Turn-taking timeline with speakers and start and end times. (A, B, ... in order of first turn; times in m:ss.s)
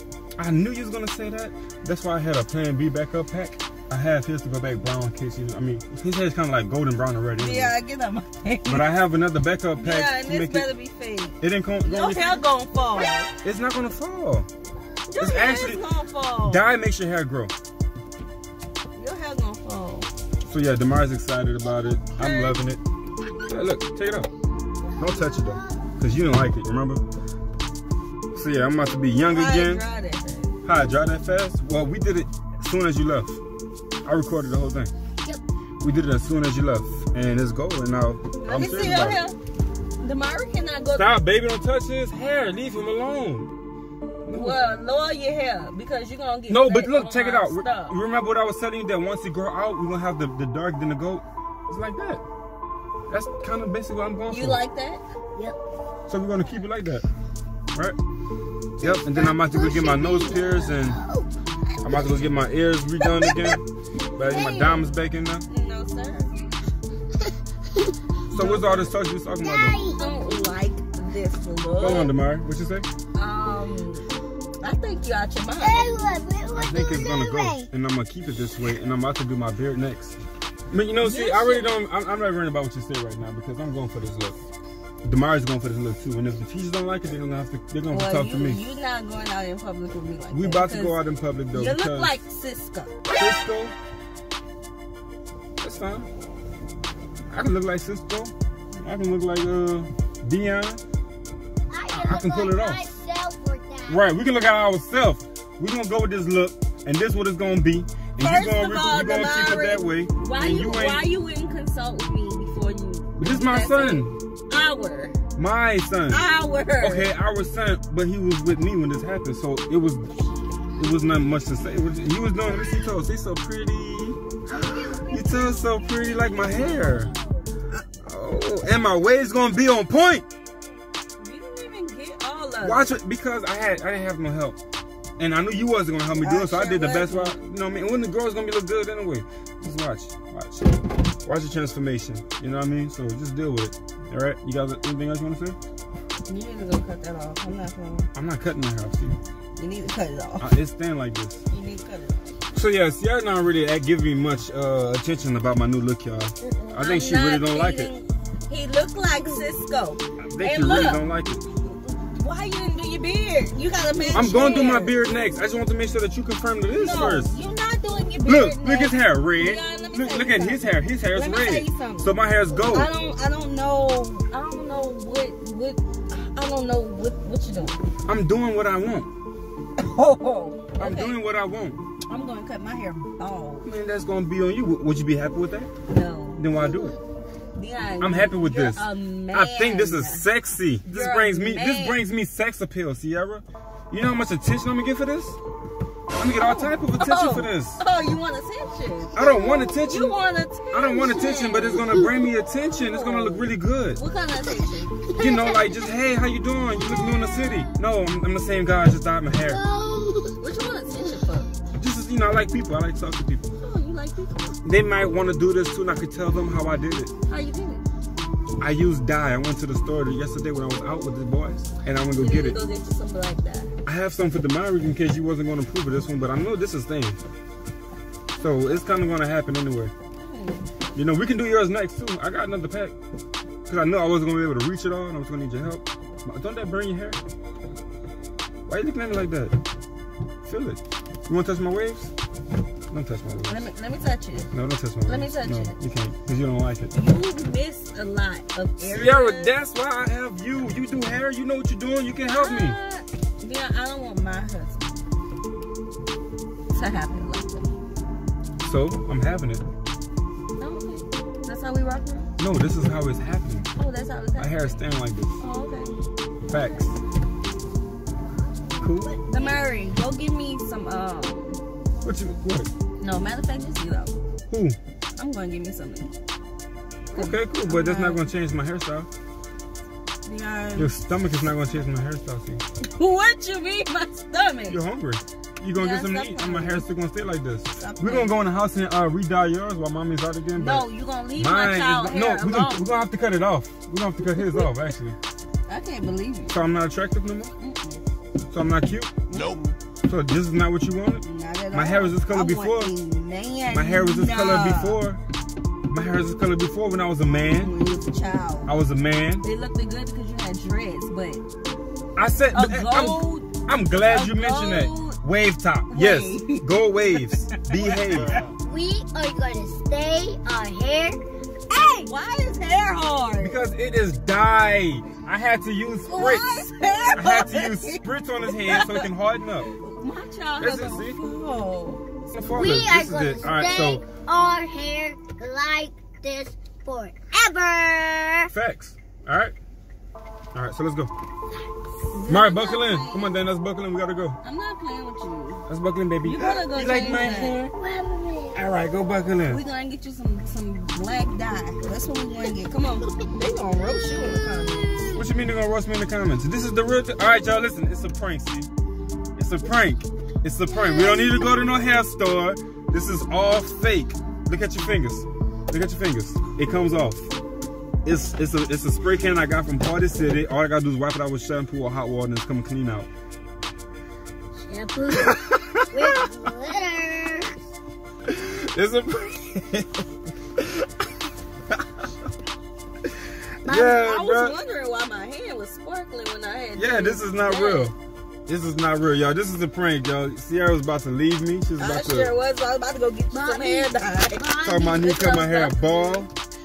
0:00.4-0:07.8 A
0:07.4-0:08.8 B
0:08.7-0:10.7 A
0:09.8-0:13.3 B
0:11.4-0:12.4 A
0:13.4-0:14.5 A
0:15.1-0:16.6 B
0:15.2-0:15.8 A
0:16.4-0:17.5 A
0:18.9-0:20.1 B
0:20.5-0:22.8 A
0:22.2-0:22.6 B
0:23.4-0:24.3 A
0:24.8-0:25.8 C
0:25.0-0:27.0 A
0:28.3-0:29.8 A
0:29.2-0:30.6 B
0:30.6-0:33.4 A
0:34.0-0:34.9 A
0:35.8-0:39.2 A
0:38.4-0:39.4 B
0:40.0-0:41.2 B
0:40.9-0:43.5 A
0:44.2-0:44.6 A
0:44.3-0:48.0 B
0:46.5-0:52.2 A
0:53.1-0:54.6 A
0:54.3-0:55.0 B
0:56.1-0:57.0 A
0:58.8-1:01.0 A
0:58.8-1:01.3 C
1:00.2-1:00.7 B
1:01.8-1:03.6 A
1:01.8-1:02.2 C
1:04.2-1:05.4 A
1:04.2-1:04.8 B
1:05.5-1:06.4 B
1:08.3-1:08.9 B
1:08.3-1:09.8 A
1:09.4-1:10.0 C
1:09.9-1:12.1 B
1:11.8-1:12.9 A
1:13.1-1:14.1 B
1:14.6-1:15.9 B
1:15.6-1:17.7 C
1:16.5-1:20.2 A
1:20.7-1:24.4 A
1:21.0-1:21.7 B
1:25.0-1:28.6 A
1:27.9-1:31.0 B
1:30.3-1:32.2 A
1:31.5-1:32.9 B
1:33.1-1:33.7 A
1:35.6-1:36.1 A
1:37.3-1:40.8 A
1:41.7-1:44.1 C
1:41.9-1:42.8 A
1:43.9-1:51.1 A
1:48.2-1:55.1 B
1:53.2-1:54.2 A
1:55.4-1:56.2 A
1:56.1-1:57.1 B
1:56.8-2:00.1 A
2:00.8-2:04.2 A
2:04.5-2:07.4 C
2:04.9-2:07.1 A
2:08.0-2:10.3 A
2:11.2-2:12.9 B
2:12.6-2:14.6 A
2:15.2-2:25.6 A
2:16.2-2:17.3 B
2:26.3-2:28.1 B
2:28.1-2:29.2 A
2:29.6-2:30.5 B
2:30.4-2:31.4 A
2:31.5-2:32.4 B
2:32.5-2:37.9 A
2:36.6-2:41.0 B
2:40.2-2:41.4 A
2:41.7-2:45.0 B
2:44.1-2:47.3 A
2:46.7-2:57.8 B
2:48.2-2:52.9 A
2:58.0-2:59.1 A
2:59.8-3:01.2 B
3:00.8-3:01.8 A
3:02.1-3:03.7 B
3:03.6-3:05.7 A
3:05.9-3:06.5 B
3:06.4-3:07.0 A
3:07.6-3:10.3 B
3:08.0-3:15.4 A
3:10.8-3:12.0 B
3:16.2-3:17.8 A
3:16.3-3:22.1 B
3:19.2-3:20.2 A
3:20.7-3:24.0 A
3:22.6-3:25.6 B
3:25.1-3:29.6 A
3:29.4-3:30.4 C
3:30.4-3:31.5 B
3:31.7-3:33.4 A
3:33.6-3:34.6 B
3:34.6-3:37.1 A
3:37.3-3:37.8 B
3:38.6-3:42.6 A
3:42.1-3:43.7 B
3:43.8-3:47.2 A
3:48.4-3:49.9 A
3:50.2-3:50.7 B
3:50.9-3:52.9 A
3:53.7-3:57.2 A
3:58.7-3:59.6 A
4:00.4-4:02.1 A
4:02.9-4:03.6 A
4:03.5-4:04.5 B
4:04.5-4:06.9 A
4:05.0-4:05.8 B
4:06.9-4:09.5 B
4:08.8-4:12.8 A
4:12.3-4:15.0 B
4:16.7-4:17.7 B
4:18.6-4:19.6 A
4:20.6-4:22.3 B
4:22.4-4:23.7 A
4:23.8-4:24.8 B
4:24.4-4:25.4 A
4:25.4-4:26.0 B
4:26.5-4:27.0 A
4:26.5-4:26.8 B
4:28.4-4:29.6 C
4:28.8-4:29.1 A
4:29.2-4:31.6 B
4:32.0-4:32.7 A
4:33.0-4:34.1 B
4:34.5-4:34.8 A
4:35.2-4:36.2 B
4:37.1-4:38.3 B
4:37.1-4:39.1 A
4:40.2-4:40.9 B
4:40.8-4:42.6 A
4:42.8-4:44.8 B
4:44.7-4:50.8 A
4:45.8-4:46.9 B
4:47.8-4:48.3 B
4:50.6-4:52.9 B
4:51.4-4:55.2 A
4:54.4-4:54.7 B
4:55.7-4:56.6 B
4:56.5-4:57.5 A
4:57.6-4:58.0 B
4:58.5-4:59.1 A
4:59.3-4:59.8 B
5:00.0-5:02.9 A
5:01.2-5:05.0 B
5:03.7-5:05.2 A
5:05.9-5:07.7 A
5:07.5-5:08.7 B
5:08.7-5:09.4 A
5:09.4-5:11.4 B
5:12.2-5:18.4 A
5:12.5-5:15.2 B
5:15.9-5:18.4 B
5:18.6-5:21.2 C
5:21.7-5:23.6 B
5:23.4-5:29.7 A
5:26.1-5:28.0 B
5:28.5-5:29.0 B
5:29.8-5:32.0 B
5:30.6-5:31.2 A
5:32.3-5:34.0 A
5:32.5-5:38.5 C
5:38.5-5:39.5 A
5:40.5-5:41.1 A
5:42.1-5:43.4 B
5:42.3-5:44.4 A
5:44.4-5:45.6 B
5:45.7-5:47.7 A
5:46.2-5:47.7 B
5:47.8-5:48.6 C
5:48.5-5:49.6 A
5:49.5-5:55.2 B
5:55.1-5:58.7 A
5:59.4-6:07.3 A
6:08.0-6:13.1 A
6:14.6-6:15.4 C
6:15.1-6:16.2 A
6:15.9-6:17.5 C
6:18.3-6:20.0 A
6:20.6-6:21.1 A
6:21.7-6:22.0 A
6:23.0-6:24.6 A
6:23.6-6:24.0 C
6:24.0-6:27.9 B
6:26.8-6:27.9 A
6:28.5-6:32.3 A
6:31.8-6:36.3 B
6:33.3-6:35.2 C
6:34.6-6:36.3 A